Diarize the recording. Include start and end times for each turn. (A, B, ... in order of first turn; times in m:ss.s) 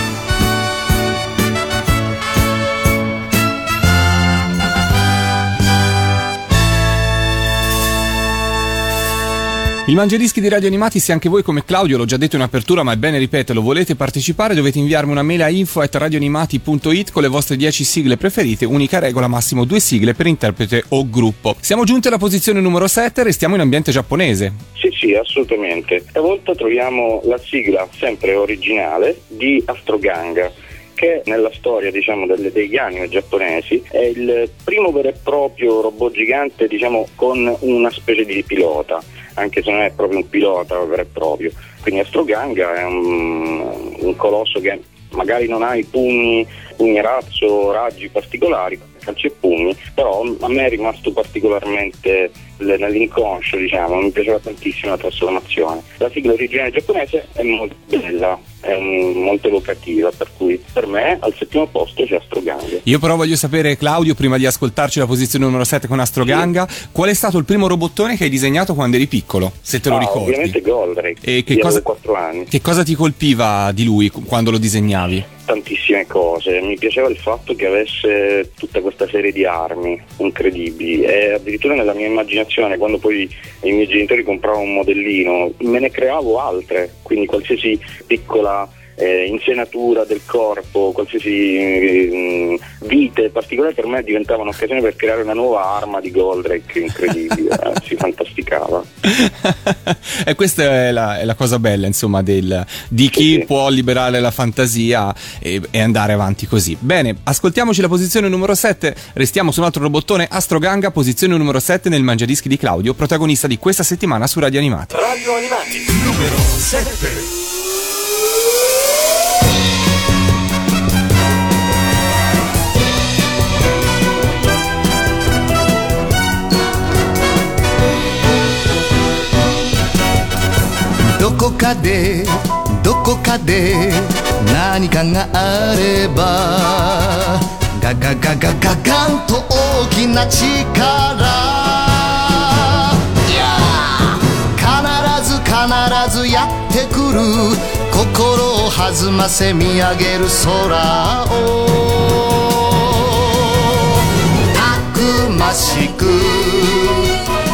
0:09.8-0:24.6 A
0:24.8-1:02.8 B
1:02.8-1:10.6 A
1:09.9-1:12.5 B
1:11.2-1:11.8 A
1:12.5-1:15.3 A
1:15.4-1:38.9 B
1:39.0-1:55.0 A
1:43.1-1:43.4 B
2:11.2-2:34.0 C
2:34.5-2:37.1 C